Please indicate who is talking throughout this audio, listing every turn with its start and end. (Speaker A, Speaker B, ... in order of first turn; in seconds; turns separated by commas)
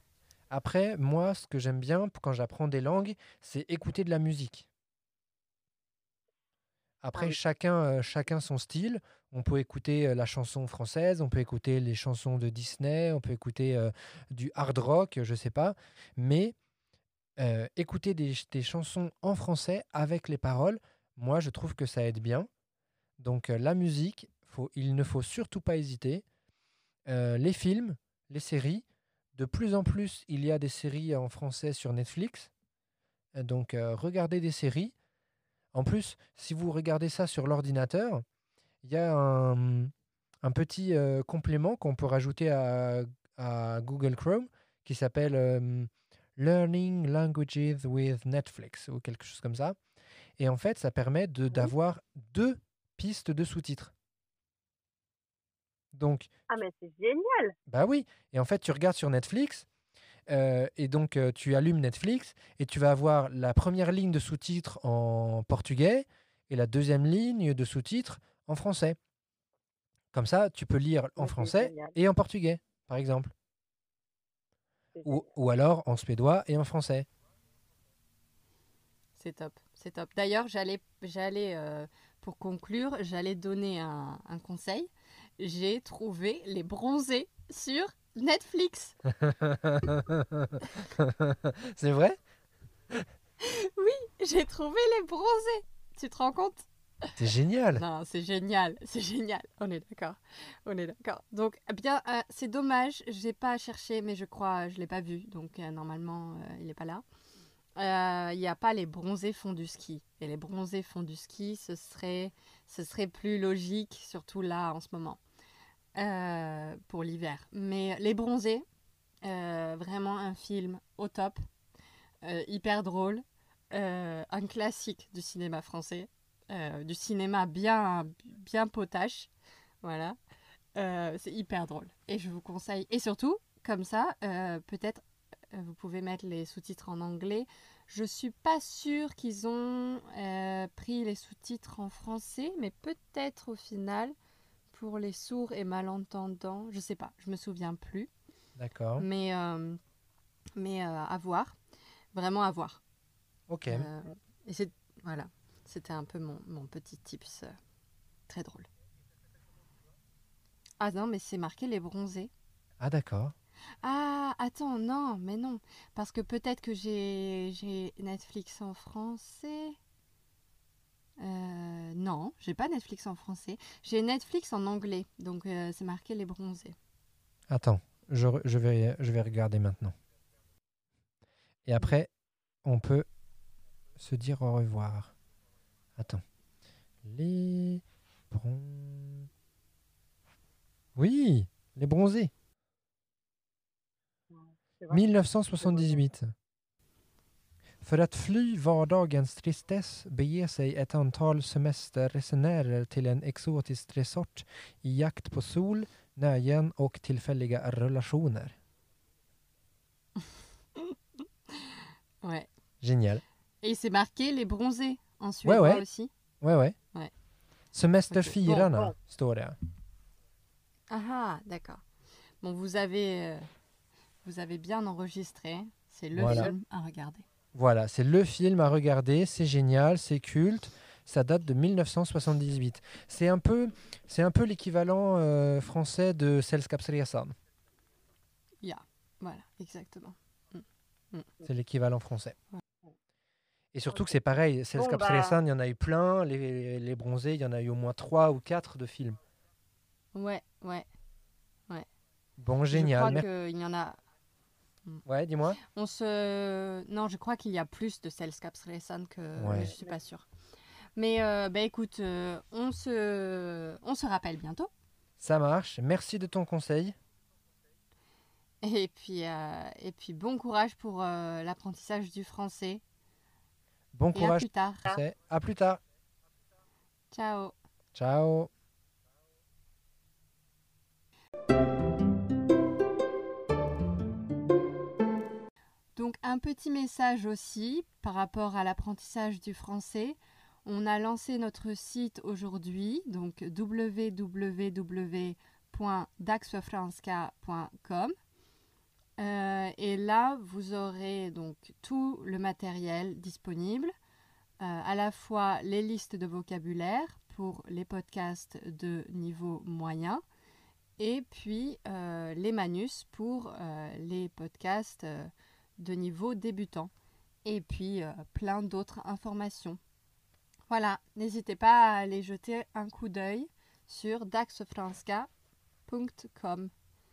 Speaker A: 0.5-4.7, Speaker A: 7.0-16.5, Speaker A: 17.4-22.5, Speaker A: 23.2-26.2, Speaker A: 27.1-32.5, Speaker A: 33.3-34.9, Speaker A: 35.7-38.2, Speaker A: 38.8-39.9, Speaker A: 40.4-49.8, Speaker A: 50.4-53.9, Speaker A: 55.9-56.3, Speaker B: 56.5-57.5, Speaker A: 57.7-59.6, Speaker A: 60.3-69.0, Speaker A: 70.1-73.3, Speaker B: 71.2-71.9, Speaker B: 75.0-75.2, Speaker A: 75.0-77.1, Speaker C: 79.2-89.0, Speaker A: 89.2-92.2, Speaker C: 93.4-96.7, Speaker A: 97.2-97.8, Speaker C: 97.7-107.0, Speaker C: 107.8-115.2, Speaker C: 115.9-118.6, Speaker C: 119.2-121.4, Speaker C: 122.2-129.3, Speaker C: 129.8-130.2, Speaker C: 130.7-144.1, Speaker C: 144.7-148.1, Speaker A: 148.6-149.1, Speaker C: 149.0-149.8, Speaker C: 150.6-151.6, Speaker C: 152.1-152.8, Speaker A: 153.5-153.9, Speaker C: 153.7-157.5, Speaker C: 158.3-158.7, Speaker C: 160.8-162.3, Speaker A: 162.8-163.3, Speaker C: 163.8-169.8, Speaker C: 171.2-176.7, Speaker A: 177.5-179.9, Speaker A: 181.7-182.1, Speaker A: 182.6-183.1, Speaker A: 184.0-185.1, Speaker A: 186.0-186.2, Speaker A: 187.0-189.3, Speaker A: 191.0-192.3, Speaker B: 194.3-195.0, Speaker A: 194.9-196.3, Speaker B: 195.6-196.0, Speaker A: 197.8-208.5, Speaker C: 211.5-212.5, Speaker A: 212.8-213.2, Speaker C: 213.6-216.1, Speaker A: 215.4-215.8, Speaker A: 216.4-216.8, Speaker A: 217.7-219.6, Speaker C: 218.1-218.7, Speaker C: 220.9-221.8, Speaker C: 222.4-223.4, Speaker C: 224.2-227.2, Speaker A: 226.1-226.5, Speaker B: 226.2-226.5, Speaker A: 227.5-237.3, Speaker C: 238.6-241.3, Speaker A: 241.4-242.3, Speaker A: 243.7-249.2, Speaker B: 244.8-245.4, Speaker C: 250.1-250.8, Speaker A: 252.4-253.2, Speaker C: 252.7-254.0, Speaker A: 255.0-255.6, Speaker C: 255.7-260.2, Speaker A: 259.4-259.7, Speaker C: 260.9-264.7, Speaker A: 265.2-266.9, Speaker C: 268.6-272.8, Speaker A: 273.9-275.8, Speaker C: 274.1-275.0, Speaker C: 277.1-277.5, Speaker A: 277.9-278.5, Speaker C: 285.9-298.1, Speaker C: 299.2-303.9, Speaker C: 304.6-310.2, Speaker C: 311.0-316.9, Speaker C: 317.4-319.8, Speaker C: 320.7-325.3, Speaker C: 325.9-326.7